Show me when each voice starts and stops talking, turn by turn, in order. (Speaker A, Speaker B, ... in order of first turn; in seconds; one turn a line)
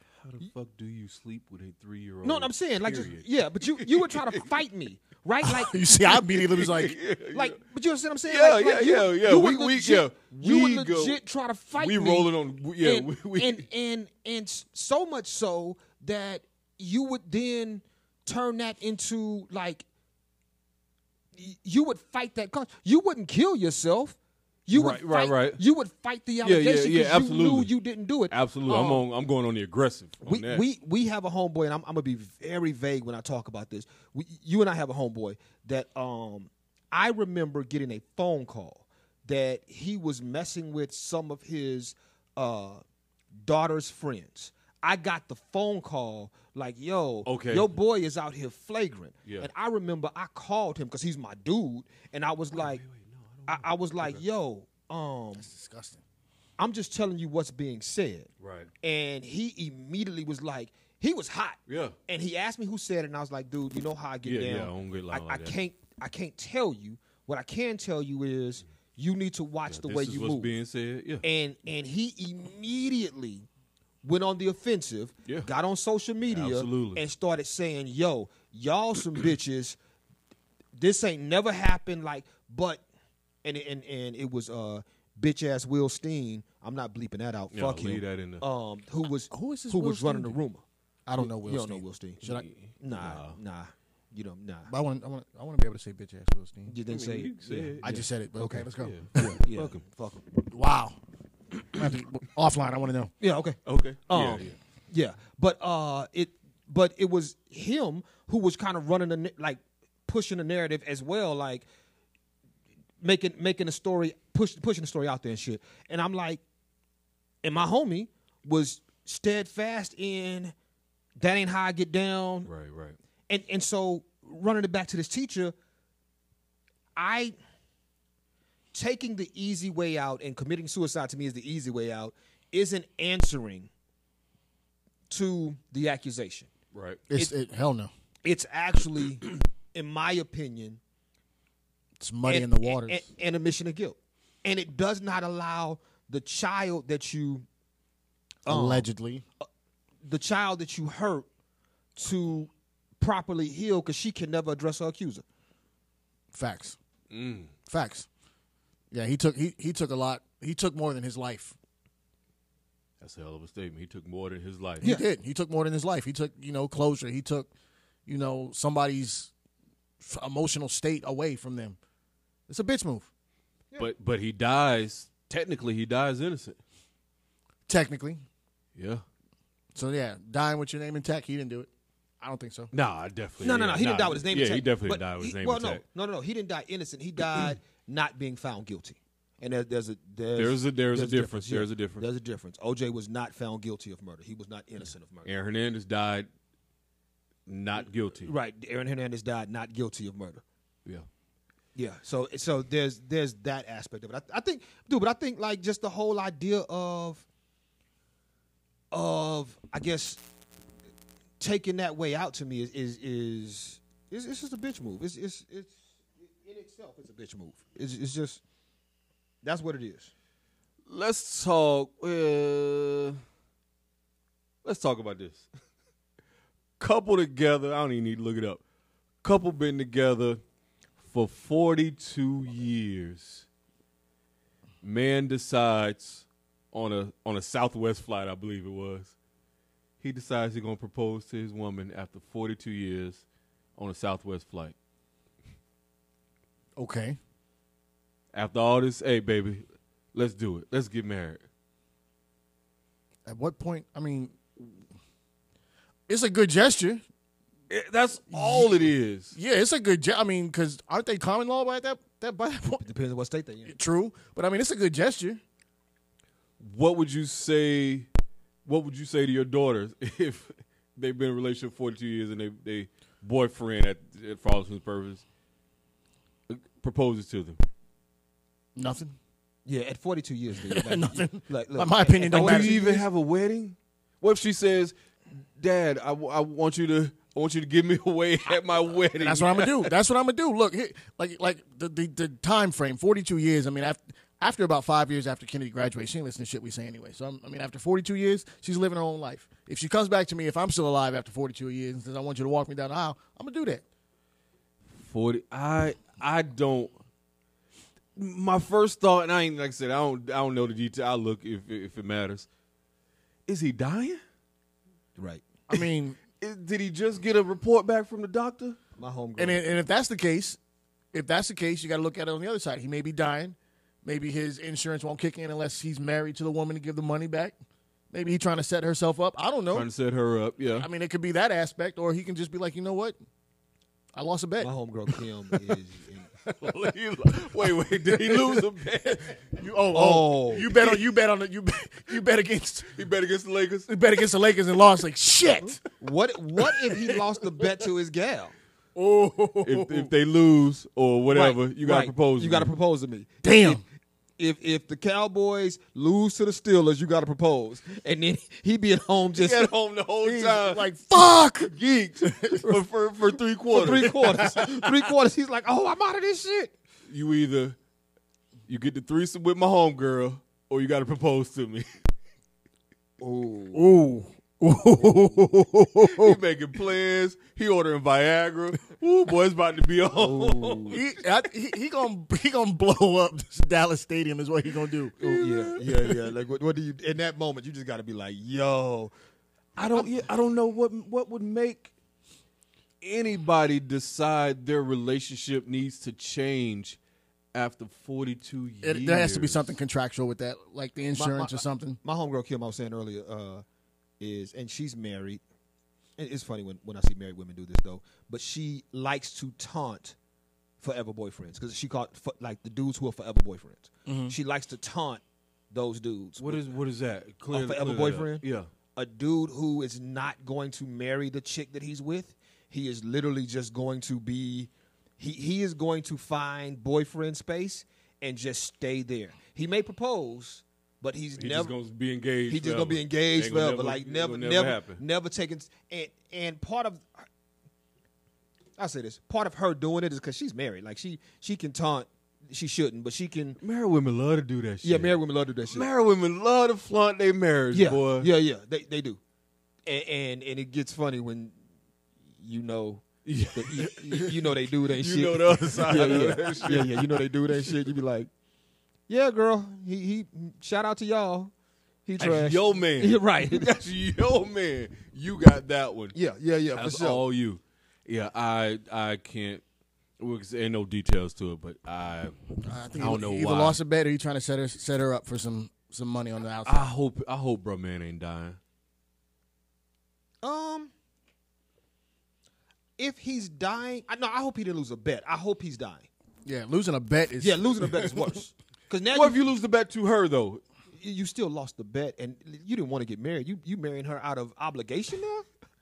Speaker A: 0.2-4.5
Speaker B: 2.2-5.8
Speaker C: 5.4-7.0
Speaker A: 6.1-7.6
Speaker B: 7.3-19.8
Speaker A: 8.2-11.2
Speaker A: 11.8-13.6
Speaker B: 21.3-29.0
Speaker A: 24.7-25.6
Speaker A: 26.4-27.7
Speaker A: 28.3-30.6
Speaker B: 30.2-42.8
Speaker B: 43.4-52.8
Speaker A: 47.2-47.7
Speaker A: 52.5-54.2
Speaker B: 53.5-55.5
Speaker C: 55.4-56.0
Speaker B: 56.6-58.3
Speaker A: 58.4-58.7
Speaker B: 58.8-70.5
Speaker A: 61.7-62.0
Speaker A: 64.2-65.5
Speaker A: 69.7-71.2
Speaker B: 71.2-73.5
Speaker B: 74.0-79.8
Speaker A: 76.3-77.0
Speaker B: 80.8-82.8
Speaker B: 83.4-90.6
Speaker A: 87.5-88.4
Speaker C: 89.3-90.4
Speaker C: 91.0-92.4
Speaker B: 91.2-92.2
Speaker A: 92.2-93.4
Speaker B: 92.8-94.7
Speaker C: 94.7-96.7
Speaker B: 96.7-98.7
Speaker A: 96.9-98.0
Speaker C: 97.8-99.4
Speaker A: 98.8-99.7
Speaker B: 99.2-100.2
Speaker C: 100.5-101.0
Speaker C: 101.7-103.1
Speaker B: 103.2-111.7
Speaker A: 103.7-104.5
Speaker B: 113.0-116.4
Speaker B: 117.4-120.5
Speaker B: 121.2-122.5
Speaker A: 122.5-123.0
Speaker B: 123.3-125.5
Speaker B: 127.0-127.3
Speaker B: 128.7-133.7
Speaker B: 135.1-136.5
Speaker A: 136.7-137.0
Speaker C: 137.1-137.9
Speaker B: 138.2-140.8
Speaker C: 142.0-143.0
Speaker B: 142.2-147.4
Speaker B: 148.4-148.9
Speaker C: 148.4-149.2
Speaker B: 150.0-151.2
Speaker B: 151.9-155.2
Speaker C: 156.3-156.8
Speaker A: 157.1-157.5
Speaker C: 157.7-158.1
Speaker C: 158.9-161.6
Speaker A: 163.0-164.9
Speaker C: 164.8-167.5
Speaker C: 168.1-169.3
Speaker C: 170.0-171.8
Speaker C: 172.5-173.1
Speaker A: 173.8-176.6
Speaker C: 177.7-178.2
Speaker A: 178.8-179.0
Speaker C: 179.7-181.7
Speaker C: 182.2-182.7
Speaker A: 182.7-185.8
Speaker B: 183.4-195.3
Speaker A: 190.3-192.0
Speaker A: 195.2-196.3
Speaker A: 197.5-198.3
Speaker B: 198.2-200.4
Speaker B: 201.7-207.2
Speaker B: 208.9-210.2
Speaker B: 211.4-218.4
Speaker B: 219.4-220.1
Speaker A: 220.9-223.2
Speaker A: 224.6-225.5
Speaker A: 226.8-228.6
Speaker A: 229.2-230.4
Speaker A: 231.0-233.4
Speaker A: 234.8-239.1
Speaker A: 240.0-243.2
Speaker A: 243.8-244.7
Speaker C: 246.8-247.2
Speaker A: 248.3-251.4
Speaker C: 253.2-254.7
Speaker C: 256.1-257.0
Speaker A: 257.7-259.4
Speaker C: 258.3-262.8
Speaker B: 262.8-263.7
Speaker C: 263.6-265.4
Speaker A: 266.6-268.1
Speaker A: 268.6-275.2
Speaker A: 276.5-277.6
Speaker C: 278.8-279.1
Speaker B: 279.6-283.0
Speaker C: 280.7-283.0
Speaker A: 282.3-284.9
Speaker A: 285.6-289.9
Speaker C: 289.2-303.8
Speaker A: 304.9-306.9
Speaker A: 308.1-312.5
Speaker A: 313.5-314.2
Speaker B: 315.2-315.4
Speaker C: 315.7-316.2
Speaker A: 316.4-318.8
Speaker B: 319.0-319.6
Speaker C: 319.4-320.6
Speaker C: 321.1-327.5
Speaker C: 328.1-329.9
Speaker A: 329.7-330.9
Speaker C: 330.8-333.2
Speaker C: 334.1-334.7
Speaker B: 334.6-336.3
Speaker A: 336.4-339.4
Speaker C: 338.0-342.9
Speaker B: 339.9-340.8
Speaker A: 342.9-343.9
Speaker C: 343.9-345.8
Speaker B: 345.9-348.5
Speaker C: 348.9-350.1
Speaker A: 349.6-352.7
Speaker B: 351.3-353.8
Speaker C: 353.4-353.8
Speaker B: 354.4-359.7
Speaker A: 359.4-364.4
Speaker C: 360.2-362.7
Speaker B: 363.7-366.7
Speaker C: 364.2-364.9
Speaker A: 367.1-367.8
Speaker A: 368.7-371.9
Speaker B: 373.2-373.9
Speaker C: 373.7-376.4
Speaker A: 376.0-381.0
Speaker B: 380.1-381.0
Speaker C: 380.9-386.1
Speaker B: 385.2-389.1
Speaker A: 389.8-391.9
Speaker A: 393.0-397.0
Speaker A: 397.5-399.7
Speaker C: 398.8-402.0
Speaker B: 401.1-403.6
Speaker B: 404.2-405.4
Speaker B: 406.2-410.1
Speaker B: 410.8-416.6
Speaker C: 414.1-414.3
Speaker A: 416.4-418.7
Speaker B: 417.5-418.4
Speaker B: 418.9-431.7
Speaker A: 431.4-435.0
Speaker B: 432.5-437.2
Speaker B: 438.8-443.6
Speaker A: 443.6-445.1
Speaker B: 444.8-445.9
Speaker A: 445.7-448.3
Speaker B: 447.7-449.2
Speaker B: 449.9-451.5
Speaker B: 452.4-458.3
Speaker A: 453.2-457.2
Speaker B: 459.1-461.5
Speaker B: 462.1-463.7
Speaker A: 462.2-466.1
Speaker B: 466.1-467.2
Speaker A: 466.7-469.6
Speaker A: 470.2-472.4
Speaker C: 472.6-476.9
Speaker A: 472.9-473.8
Speaker A: 476.6-478.6
Speaker B: 480.4-480.9
Speaker B: 483.0-486.1
Speaker C: 486.4-488.2
Speaker B: 487.4-489.4
Speaker A: 489.1-490.6
Speaker B: 491.0-495.5